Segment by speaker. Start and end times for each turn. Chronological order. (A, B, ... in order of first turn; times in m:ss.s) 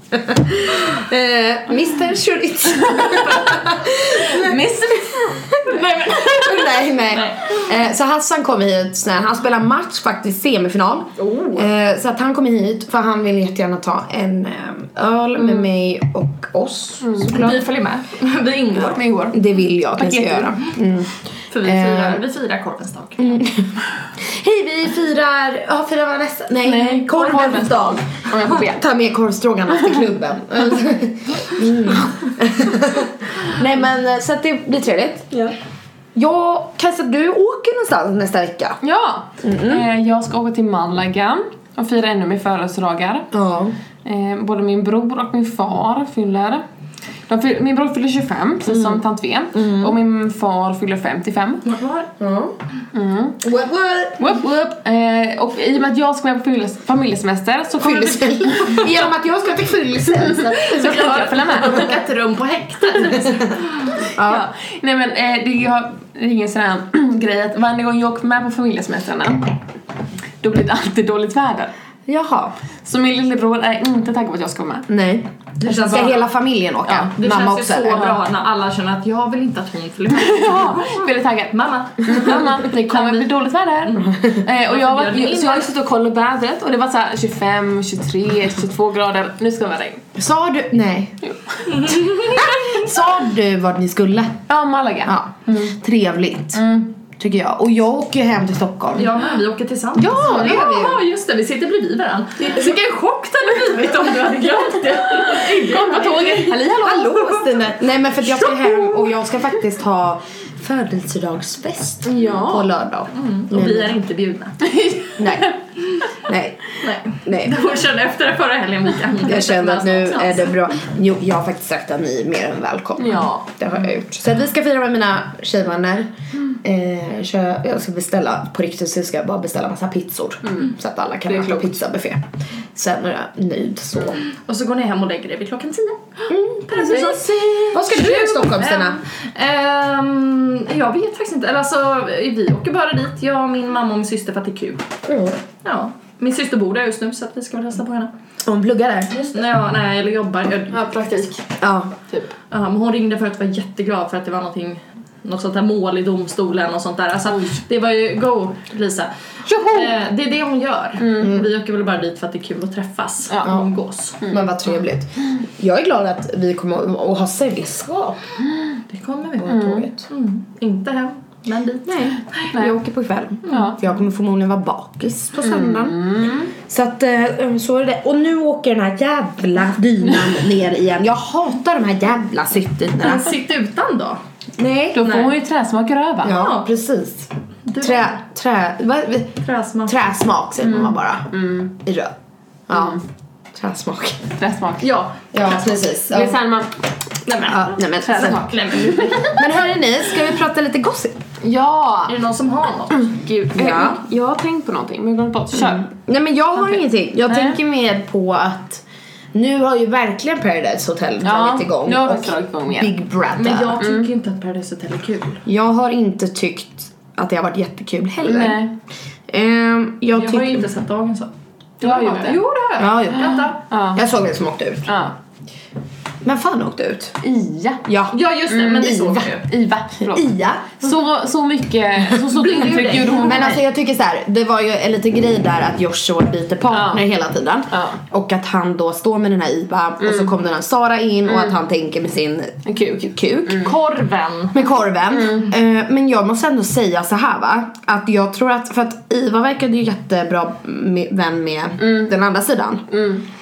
0:00.1-0:04.6 A
0:02.8-0:06.2 B
0:05.5-0:17.6 A
0:05.6-0:07.7 C
0:11.2-0:11.7 B
0:17.0-0:17.4 B
0:17.2-0:19.0 C
0:18.8-0:20.6 B
0:19.3-0:21.1 A
0:21.5-0:23.4 C
0:21.6-0:22.2 A
0:23.2-0:35.3 A
0:26.6-0:28.8 B
0:36.1-0:38.8 A
0:38.8-0:43.3 B
0:39.4-0:39.8 A
0:43.3-0:43.7 A
0:44.0-0:46.6 B
0:47.3-0:51.6 B
0:48.7-0:49.0 A
0:49.5-0:49.9 A
0:51.6-0:52.1 C
0:52.2-0:52.5 A
0:52.9-0:53.4 B
0:53.4-0:54.5 A
0:54.2-0:58.9 B
0:57.8-1:01.2 A
1:00.2-1:02.0 B
1:00.7-1:04.0 C
1:04.1-1:04.4 A
1:04.2-1:09.5 B
1:10.4-1:11.7 B
1:12.1-1:12.5 A
1:12.8-1:14.9 B
1:14.9-1:18.1 A
1:15.6-1:16.2 C
1:16.9-1:25.7 C
1:20.1-1:30.0 B
1:24.1-1:24.3 A
1:30.2-1:31.2 A
1:31.2-1:31.6 B
1:31.6-1:32.9 C
1:32.3-1:34.5 A
1:34.5-1:35.7 B
1:35.0-1:39.1 A
1:36.5-1:36.9 B
1:38.9-1:47.5 C
1:40.0-1:41.0 A
1:40.0-1:40.6 B
1:44.8-1:47.1 B
1:46.6-1:54.0 A
1:48.4-1:49.0 B
1:52.0-1:52.7 B
1:53.1-1:54.7 C
1:54.6-1:55.5 B
1:55.2-1:55.5 A
1:56.3-1:56.6 A
1:56.8-2:00.5 C
1:57.2-1:57.6 A
1:59.2-2:14.2 A
2:03.0-2:03.5 B
2:10.5-2:10.7 B
2:11.2-2:11.8 B
2:14.4-2:16.1 C
2:16.3-2:19.0 A
2:16.7-2:24.8 C
2:16.9-2:17.6 B
2:25.1-2:25.4 A
2:25.6-2:28.1 C
2:28.4-2:29.4 A
2:29.3-2:31.4 C
2:30.7-2:31.4 B
2:31.6-2:31.9 A
2:32.5-2:44.2 C
2:39.5-2:39.9 B
2:41.0-2:41.3 B
2:41.2-2:41.4 A
2:43.3-2:43.6 B
2:44.2-2:48.2 A
2:48.9-2:52.5 C
2:49.5-2:49.9 B
2:49.5-2:49.9 A
2:51.8-3:03.3 A
2:53.5-2:53.8 B
2:55.4-2:56.5 B
3:03.0-3:04.2 C
3:04.6-3:05.0 A
3:04.9-3:06.4 B
3:05.0-3:05.3 C
3:06.2-3:12.1 A
3:06.2-3:06.7 C
3:07.6-3:08.2 C
3:09.4-3:10.1 C
3:10.6-3:11.7 B
3:12.7-3:13.0 A
3:12.7-3:13.0 B
3:13.5-3:14.3 A
3:14.4-3:14.9 B
3:14.8-3:15.6 C
3:15.3-3:16.4 A
3:16.1-3:16.7 B
3:17.2-3:19.4 C
3:17.5-3:18.5 A
3:18.1-3:19.4 B
3:19.2-3:21.2 A
3:21.4-3:22.1 B
3:22.1-3:23.1 C
3:22.9-3:25.9 B
3:23.5-3:24.0 A
3:25.5-3:28.8 A
3:26.6-3:27.6 B
3:29.3-3:33.8 A
3:31.2-3:33.0 B
3:33.4-3:35.4 C
3:33.8-3:34.1 B
3:35.4-3:38.6 A
3:38.2-3:38.7 B
3:39.3-3:40.7 A
3:40.1-3:43.6 C
3:41.8-3:42.4 B
3:42.8-3:44.9 A
3:43.3-3:44.0 B
3:44.9-3:45.1 B
3:46.2-3:47.2 A
3:47.2-3:47.8 B
3:47.8-3:48.2 A
3:48.1-3:49.5 C
3:48.5-3:53.6 B
3:50.0-3:50.8 A
3:52.1-3:53.4 C
3:53.1-4:02.6 A
3:56.7-3:57.0 B
3:57.7-3:58.0 B
4:00.0-4:00.3 B
4:01.3-4:01.6 B
4:02.6-4:03.7 B
4:03.1-4:03.7 A
4:03.6-4:04.6 C
4:04.5-4:12.9 A
4:05.2-4:05.5 B
4:11.8-4:12.1 B
4:12.9-4:13.2 B